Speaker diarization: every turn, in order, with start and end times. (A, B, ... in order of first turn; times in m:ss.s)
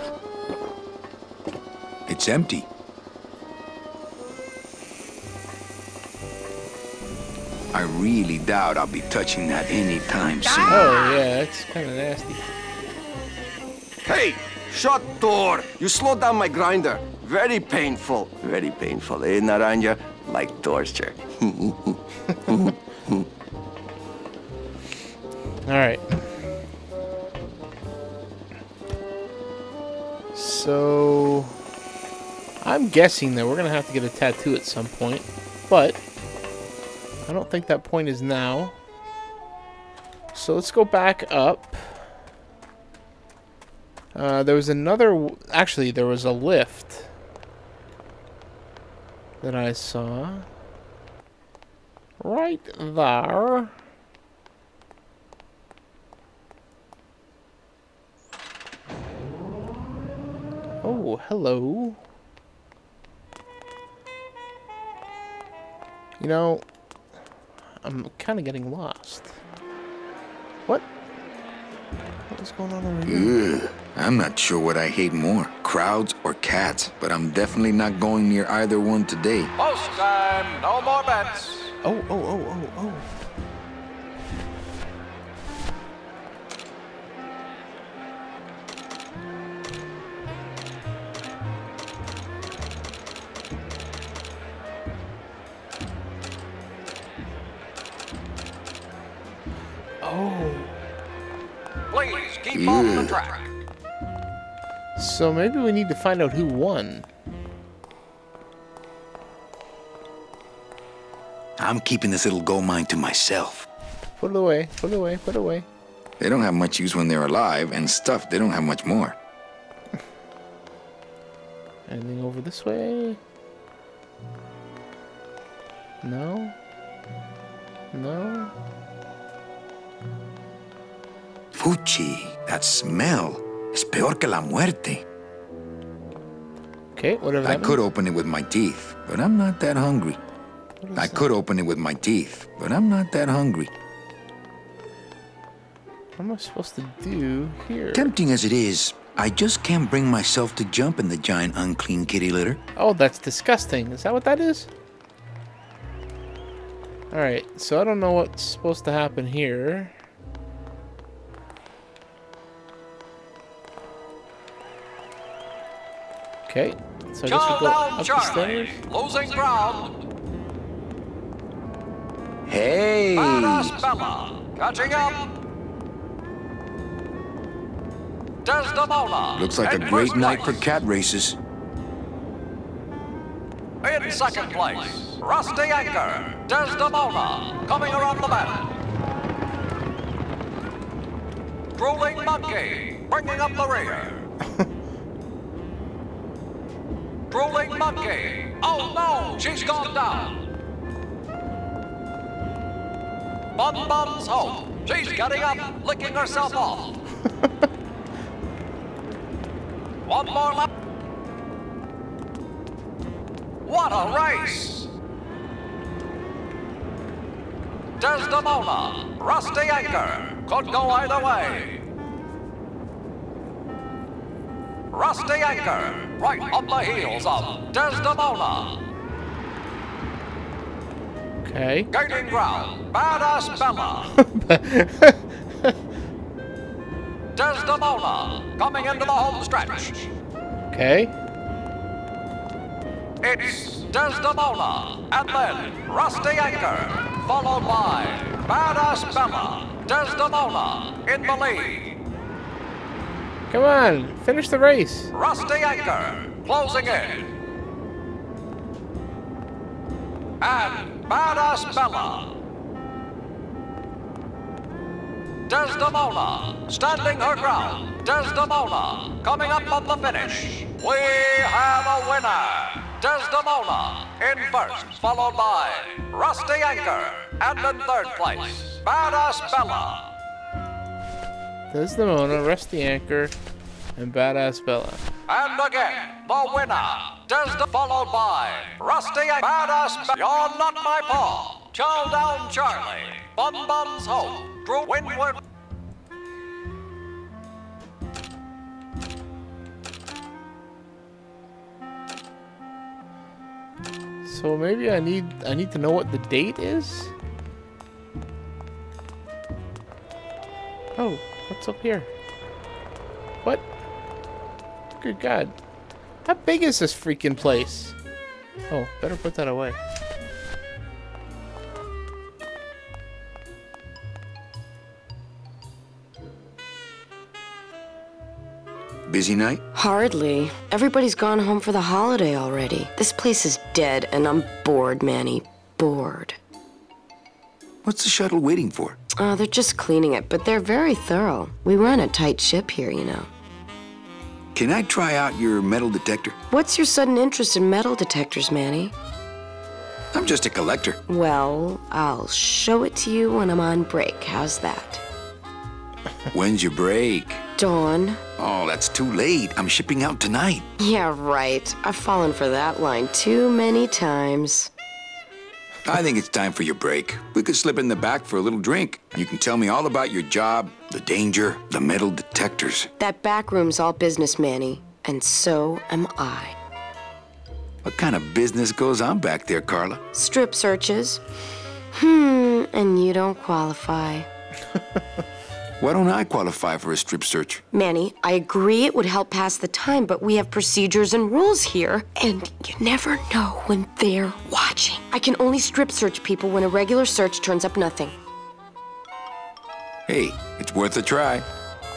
0:02.1-0:02.7 A
0:07.7-0:10.8 A
0:10.6-0:12.4 B
0:14.0-0:22.0 C
0:22.5-0:23.1 C
0:25.6-0:26.4 B
0:30.3-0:31.6 B
0:32.6-0:36.0 B
0:37.2-0:38.8 B
0:40.3-0:42.1 B
0:44.1-0:47.1 B
0:49.4-0:50.4 B
0:52.2-0:53.7 B
1:00.8-1:02.0 B
1:06.2-1:06.6 B
1:07.8-1:09.3 B
1:12.3-1:13.3 B
1:13.1-1:19.5 A
1:19.6-1:21.7 D
1:21.8-1:23.1 B
1:40.0-1:40.8 B
1:41.9-1:43.6 D
1:42.5-1:43.2 A
1:45.0-1:47.1 B
1:51.6-1:53.7 A
1:54.2-1:55.6 B
1:56.2-1:59.2 A
2:01.9-2:03.2 B
2:06.0-2:06.5 B
2:07.9-2:08.5 B
2:11.5-2:15.0 A
2:16.9-2:17.8 B
2:17.4-2:20.2 A
2:20.8-2:21.2 B
2:21.0-2:23.7 A
2:26.2-2:28.1 B
2:27.9-2:32.6 A
2:32.8-2:34.7 B
2:37.1-2:39.9 B
2:46.5-2:48.8 B
2:47.2-2:50.0 D
2:52.4-2:53.7 A
2:53.1-2:55.3 D
2:58.4-3:00.7 D
2:59.4-3:01.4 A
3:03.8-3:08.7 D
3:11.8-3:14.2 D
3:17.3-3:20.4 D
3:23.6-3:27.0 D
3:30.0-3:30.7 D
3:33.6-3:34.9 D
3:38.0-3:41.8 D
3:44.9-3:48.8 D
3:51.4-3:51.9 B
3:51.9-3:54.2 D
3:54.2-3:55.7 B
3:57.4-4:00.1 D
4:00.7-4:01.1 B
4:03.2-4:11.9 D
4:13.5-4:15.1 B
4:15.1-4:17.3 D
4:20.4-4:22.3 D
4:25.5-4:40.1 D
4:41.7-4:43.3 B
4:44.0-4:45.0 B
4:45.3-4:55.4 D
5:04.2-5:07.1 B
5:11.0-5:12.1 B
5:15.0-5:15.5 B
5:16.2-5:18.0 B
5:18.7-5:19.8 B
5:29.1-5:29.6 A
5:29.7-5:36.4 E
5:37.8-5:39.0 A
5:39.2-5:43.3 E
5:44.5-5:46.4 A
5:46.5-5:48.9 E
5:50.1-5:51.0 A
5:51.1-5:55.0 E
5:56.3-5:57.4 A
5:57.6-5:58.2 E
5:58.4-6:00.7 A
6:00.8-6:04.7 E
6:05.8-6:12.9 A
6:13.0-6:16.6 E
6:17.8-6:20.0 A
6:20.1-6:21.2 E
6:21.9-6:24.3 E
6:25.8-6:27.6 A
6:27.7-6:38.1 E
6:40.0-6:41.5 A